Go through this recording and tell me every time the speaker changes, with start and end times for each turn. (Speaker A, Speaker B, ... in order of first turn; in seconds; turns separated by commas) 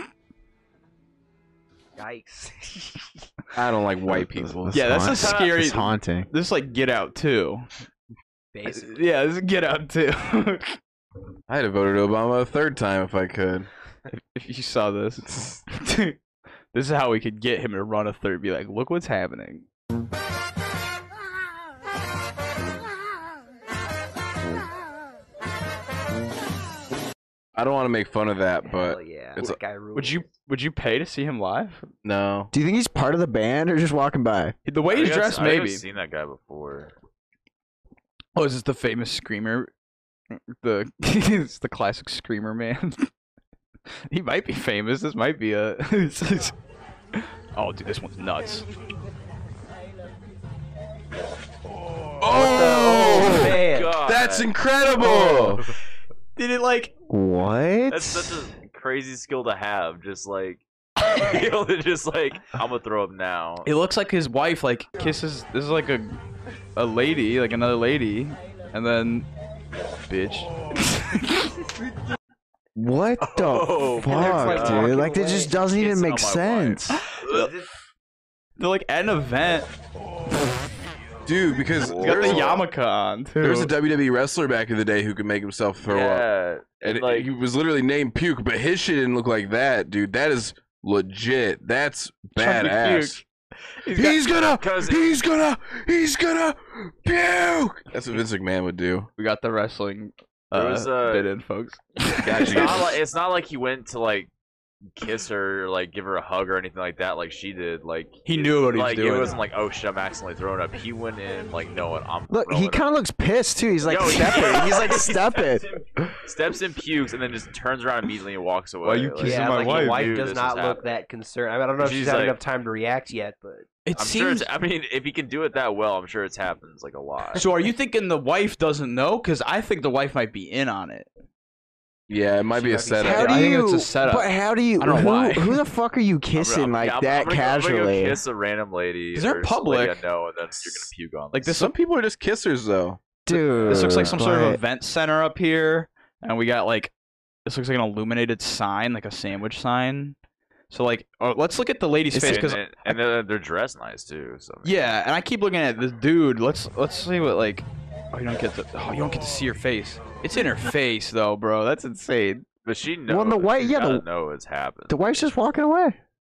Speaker A: 2.0-3.1, Speaker B: 3.5-4.7, Speaker C: 4.1-6.3, Speaker D: 4.7-7.7, Speaker E: 5.1-5.5, Speaker A: 8.5-9.0, Speaker D: 8.7-10.8, Speaker B: 11.5-13.7, Speaker D: 14.1-16.2, Speaker B: 15.3-15.6, Speaker D: 16.7-19.6, Speaker B: 27.5-29.5, Speaker A: 28.6-30.2, Speaker D: 29.4-31.9, Speaker B: 32.0-32.5, Speaker C: 32.5-34.5, Speaker D: 34.6-35.8, Speaker E: 34.9-36.9, Speaker D: 38.3-39.7, Speaker D: 40.3-43.1, Speaker D: 44.1-46.5, Speaker D: 47.2-48.6, Speaker B: 52.2-55.6, Speaker A: 52.3-54.0, Speaker E: 53.1-54.5, Speaker D: 55.0-55.6, Speaker D: 56.4-56.9, Speaker C: 57.1-58.5, Speaker E: 57.9-63.7, Speaker D: 63.6-66.2, Speaker D: 66.8-69.3, Speaker D: 70.1-71.5, Speaker C: 72.7-77.0, Speaker E: 73.2-76.9, Speaker A: 74.0-75.5, Speaker D: 77.1-77.5, Speaker D: 78.6-79.7, Speaker B: 81.2-82.6, Speaker E: 81.8-82.5, Speaker D: 82.0-83.7, Speaker B: 83.4-86.3, Speaker E: 85.8-87.3, Speaker B: 86.8-93.2, Speaker D: 92.3-93.2, Speaker D: 93.8-94.2, Speaker B: 93.9-99.1, Speaker E: 94.6-95.2, Speaker D: 99.2-102.9, Speaker E: 100.5-101.3, Speaker B: 102.2-103.0, Speaker E: 102.2-104.3, Speaker E: 104.9-113.0, Speaker D: 108.2-109.3, Speaker C: 112.3-115.7, Speaker E: 113.8-121.0, Speaker D: 118.8-120.1, Speaker A: 119.2-123.7, Speaker E: 121.8-122.4, Speaker D: 123.8-124.5, Speaker E: 124.0-127.4, Speaker D: 127.3-131.1, Speaker B: 132.1-133.4, Speaker A: 132.5-133.4, Speaker C: 133.0-138.2, Speaker D: 133.0-135.6, Speaker E: 136.3-141.5, Speaker D: 139.1-140.0, Speaker D: 141.3-141.7, Speaker B: 141.5-143.0, Speaker C: 143.3-144.6, Speaker D: 143.3-146.9, Speaker E: 143.7-144.2, Speaker D: 147.4-150.2, Speaker D: 150.7-152.9, Speaker C: 152.1-152.5, Speaker E: 152.2-154.9, Speaker D: 154.6-162.4, Speaker E: 162.6-165.3, Speaker C: 163.1-164.0, Speaker C: 164.9-166.0